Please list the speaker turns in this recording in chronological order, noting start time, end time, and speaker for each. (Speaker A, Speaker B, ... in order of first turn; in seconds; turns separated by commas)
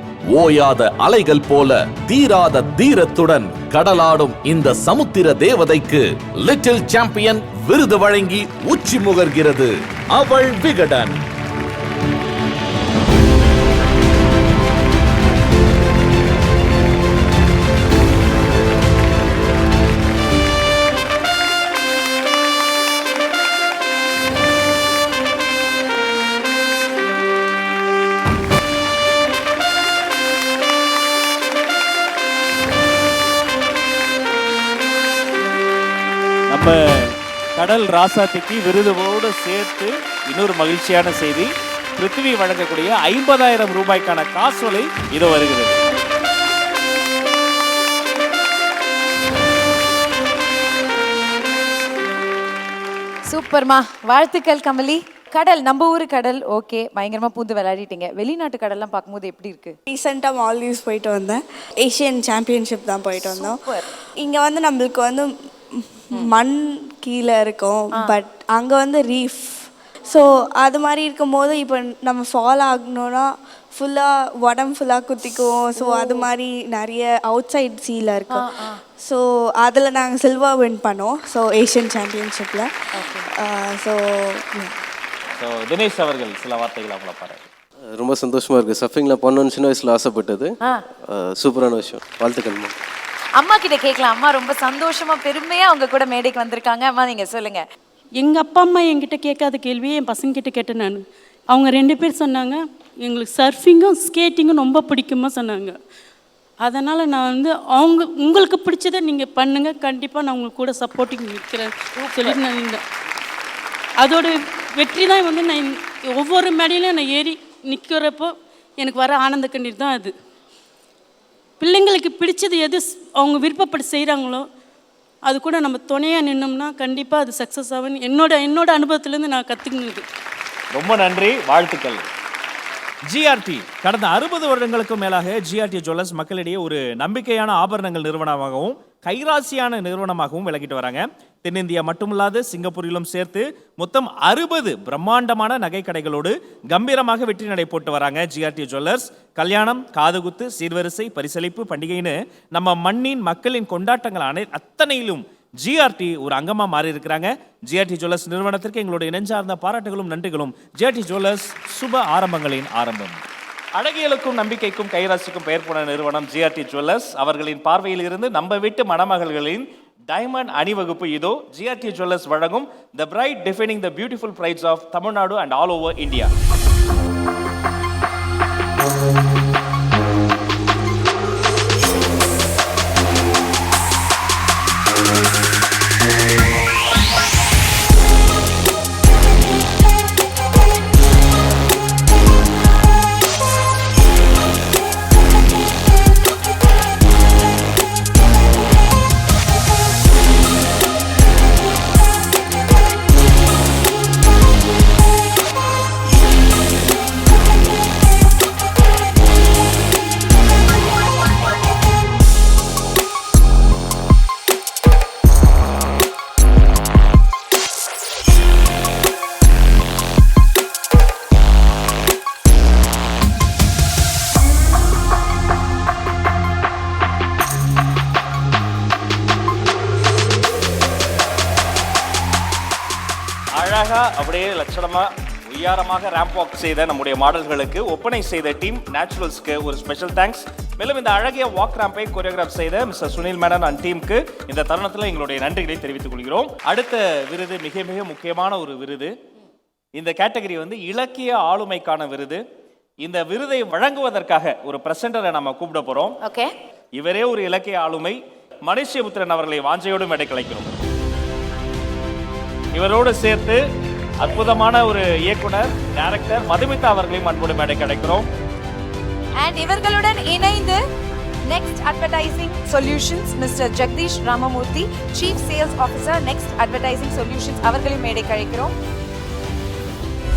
Speaker A: 0.3-11.2, Speaker B: 36.5-45.8, Speaker C: 53.3-59.8, Speaker D: 59.9-78.5, Speaker C: 63.2-63.9, Speaker C: 75.8-76.2, Speaker C: 78.3-78.8, Speaker D: 79.0-84.7, Speaker C: 82.9-83.3, Speaker B: 85.4-87.5, Speaker E: 87.9-90.5, Speaker E: 91.1-92.7, Speaker C: 93.4-97.6, Speaker F: 98.2-105.8, Speaker F: 106.6-112.8, Speaker C: 112.0-112.4, Speaker F: 114.0-120.1, Speaker F: 121.6-124.5, Speaker F: 125.2-130.1, Speaker B: 130.7-132.1, Speaker B: 133.1-163.2, Speaker B: 163.8-176.3, Speaker B: 233.5-249.1, Speaker B: 249.9-252.4, Speaker B: 253.0-256.2, Speaker C: 256.2-256.5, Speaker B: 256.9-260.7, Speaker B: 262.7-263.6, Speaker B: 264.2-268.2, Speaker C: 269.4-270.8, Speaker C: 271.5-278.7